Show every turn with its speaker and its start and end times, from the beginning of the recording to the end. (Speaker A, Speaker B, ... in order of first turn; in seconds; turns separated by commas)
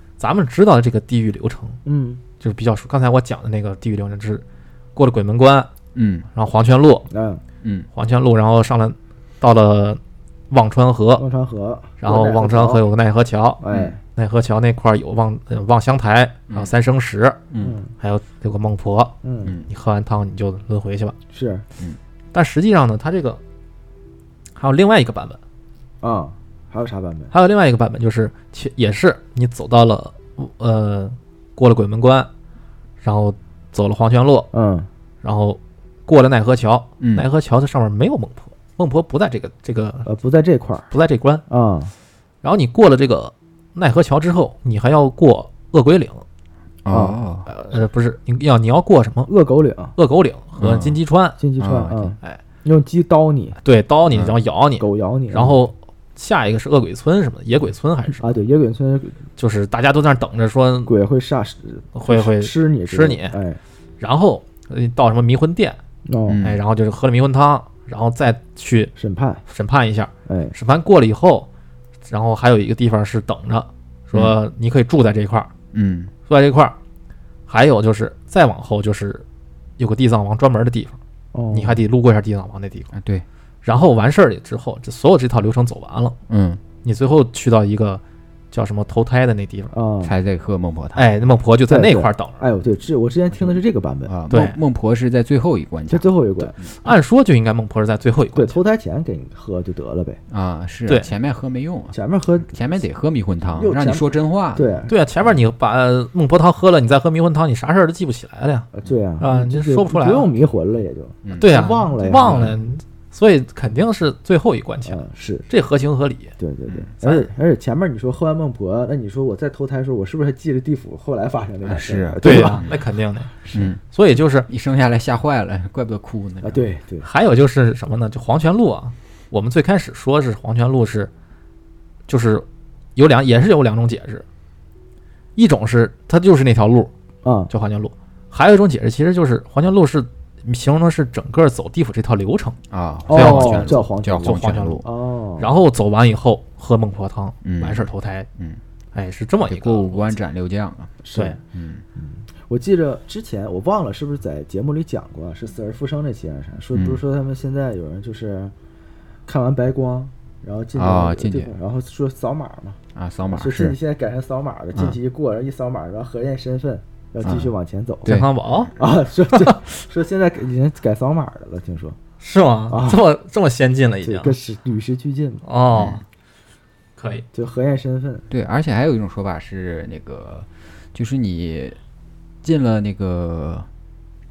Speaker A: 0.2-1.8, Speaker B: 1.8-2.2, Speaker A: 2.4-5.7, Speaker C: 5.9-6.3, Speaker A: 6.3-7.1, Speaker B: 7.1-7.4, Speaker C: 7.6-7.9, Speaker A: 7.9-11.2, Speaker B: 11.2-12.8, Speaker A: 12.0-13.6, Speaker B: 13.6-14.0, Speaker A: 14.1-17.4, Speaker C: 17.5-17.8, Speaker B: 17.6-17.9, Speaker A: 18.0-19.1, Speaker B: 19.2-19.6, Speaker C: 19.4-19.7, Speaker A: 19.7-21.1, Speaker B: 21.3-21.6, Speaker A: 22.3-23.4, Speaker A: 24.6-25.4, Speaker B: 26.0-27.3, Speaker A: 27.3-32.3, Speaker A: 33.0-34.5, Speaker B: 34.5-34.9, Speaker A: 35.2-40.1, Speaker C: 37.0-37.2, Speaker B: 40.0-40.9, Speaker A: 40.9-41.4, Speaker B: 41.5-41.9, Speaker A: 42.4-46.2, Speaker C: 46.8-47.5, Speaker B: 46.9-47.2, Speaker A: 47.5-49.3, Speaker B: 49.3-50.0, Speaker A: 50.0-51.4, Speaker C: 50.6-51.0, Speaker B: 51.4-53.6, Speaker C: 51.6-52.2, Speaker A: 53.6-58.2, Speaker C: 54.1-54.3, Speaker B: 54.8-55.6, Speaker B: 58.2-59.2, Speaker A: 59.4-60.9, Speaker B: 60.9-63.6, Speaker A: 61.9-63.4, Speaker A: 64.0-65.8, Speaker B: 66.0-66.4, Speaker C: 66.3-66.6, Speaker A: 66.4-68.9, Speaker B: 69.0-69.4, Speaker A: 69.5-71.5, Speaker B: 70.2-70.5, Speaker A: 72.0-75.5, Speaker C: 75.7-76.1, Speaker A: 76.3-76.8, Speaker A: 77.5-79.2, Speaker A: 79.8-81.0, Speaker B: 81.3-81.8, Speaker A: 81.5-82.9, Speaker C: 82.9-83.2, Speaker A: 83.6-86.2, Speaker C: 86.3-86.6, Speaker A: 86.8-89.7, Speaker B: 89.7-90.1, Speaker C: 90.0-91.0, Speaker A: 91.0-92.4, Speaker B: 91.7-94.1, Speaker C: 94.0-96.7, Speaker A: 94.3-94.6, Speaker B: 95.9-96.5, Speaker A: 96.7-98.6, Speaker B: 98.3-100.2, Speaker C: 100.3-102.0, Speaker B: 101.9-102.5, Speaker C: 102.5-104.8, Speaker B: 103.5-104.9, Speaker A: 104.9-108.7, Speaker B: 108.7-112.5, Speaker A: 109.2-110.3, Speaker C: 111.2-112.5, Speaker A: 111.3-116.3, Speaker B: 114.8-115.5, Speaker B: 116.4-122.7, Speaker A: 117.0-117.3, Speaker C: 121.6-122.8, Speaker A: 122.2-124.5, Speaker C: 123.5-123.8, Speaker C: 124.5-126.7, Speaker B: 126.4-127.1, Speaker A: 127.0-131.1, Speaker A: 132.1-132.4, Speaker A: 132.9-134.2, Speaker A: 135.3-136.9, Speaker B: 137.2-137.5, Speaker A: 137.5-142.6, Speaker C: 142.7-144.8, Speaker B: 143.1-145.6, Speaker A: 143.1-144.8, Speaker A: 145.4-148.3, Speaker C: 147.4-148.6, Speaker A: 148.9-150.2, Speaker C: 149.5-151.8, Speaker B: 151.0-151.4, Speaker A: 151.1-151.4, Speaker B: 151.9-158.5, Speaker C: 156.7-157.0, Speaker B: 159.2-162.8, Speaker C: 160.8-161.5, Speaker C: 162.9-163.7, Speaker B: 163.3-168.2, Speaker C: 167.2-167.5, Speaker A: 168.1-168.7, Speaker B: 168.8-172.0, Speaker A: 169.3-169.6, Speaker A: 172.2-174.3, Speaker B: 172.7-173.0, Speaker B: 174.0-175.4, Speaker A: 175.4-176.0, Speaker C: 175.7-176.0, Speaker A: 177.0-177.3, Speaker B: 177.3-178.3, Speaker C: 178.3-181.8, Speaker C: 182.4-183.7